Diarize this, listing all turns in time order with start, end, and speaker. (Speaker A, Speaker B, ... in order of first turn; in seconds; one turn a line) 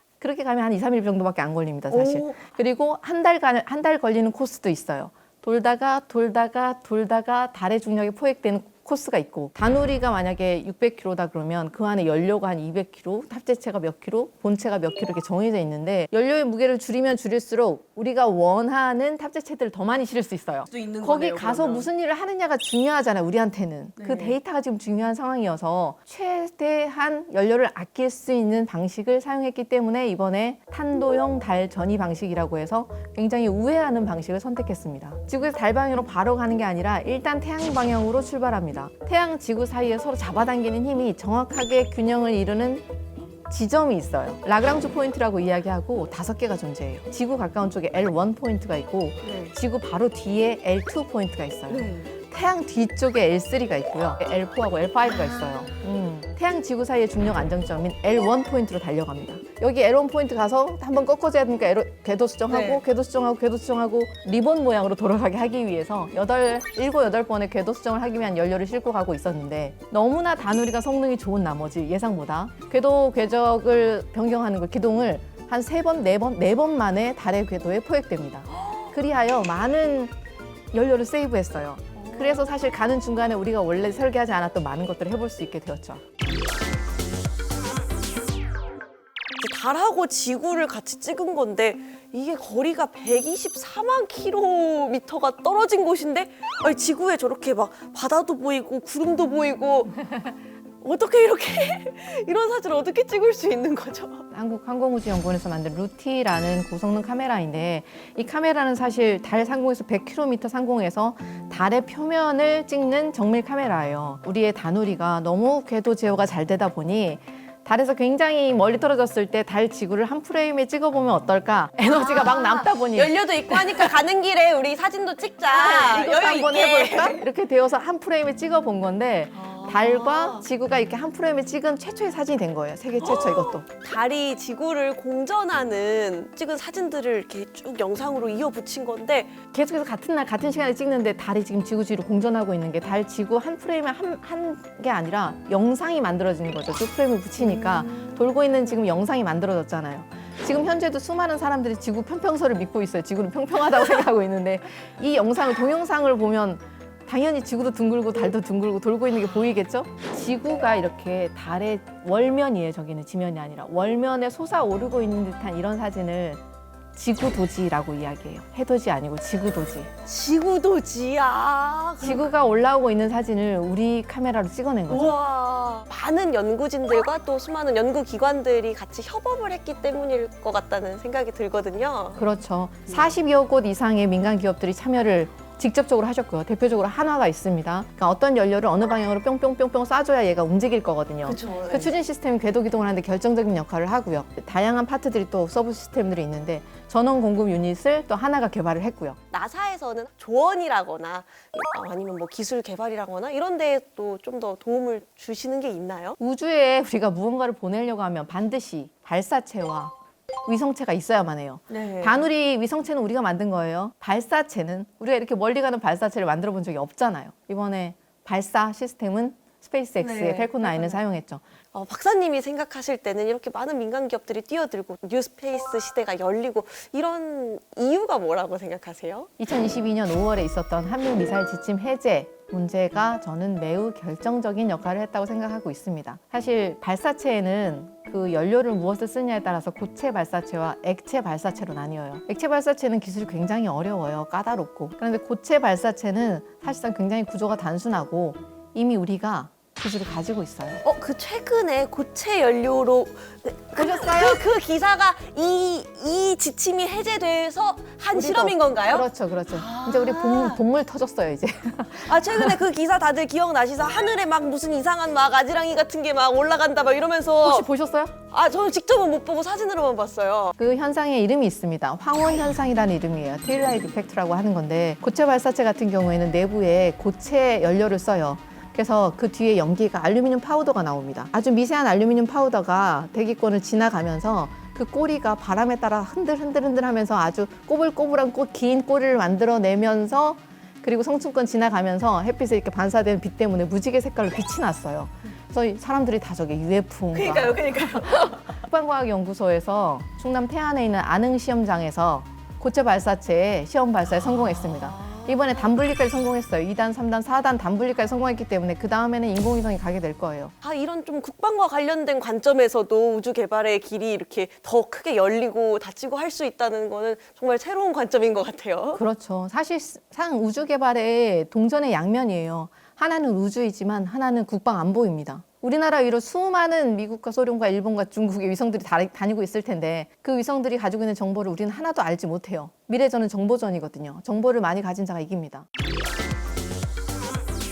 Speaker A: 0.2-42.8
Speaker B: 1.9-2.4
Speaker B: 20.7-21.9
Speaker B: 24.0-24.4
Speaker A: 43.5-80.1
Speaker B: 49.2-49.5
Speaker B: 51.7-52.1
Speaker B: 55.0-55.7
Speaker B: 62.5-62.8
Speaker B: 78.5-79.0
Speaker A: 80.7-86.0
Speaker B: 82.0-82.5
Speaker B: 89.4-100.0
Speaker B: 100.8-104.2
Speaker A: 104.3-124.0
Speaker B: 121.8-127.2
Speaker A: 125.5-133.6
Speaker B: 129.3-130.5
Speaker B: 133.0-139.4
Speaker A: 139.5-166.4
Speaker B: 147.4-148.6
Speaker B: 159.2-159.6
Speaker A: 166.9-169.9
Speaker B: 170.1-172.3
Speaker A: 172.0-175.1
Speaker B: 174.9-182.2
Speaker A: 182.2-199.2
Speaker B: 191.2-191.9
Speaker B: 199.3-206.2
Speaker A: 206.2-209.9
Speaker A: 210.4-221.4
Speaker B: 211.7-212.3
Speaker B: 220.0-221.0
Speaker B: 221.7-229.3
Speaker A: 229.4-250.8
Speaker B: 250.8-260.6
Speaker A: 253.8-254.4
Speaker A: 258.1-262.6
Speaker B: 262.0-267.7
Speaker A: 267.4-268.1
Speaker B: 268.3-270.6
Speaker A: 270.6-310.5
Speaker B: 297.1-298.6
Speaker B: 304.1-305.7
Speaker B: 310.6-319.0
Speaker A: 318.9-335.6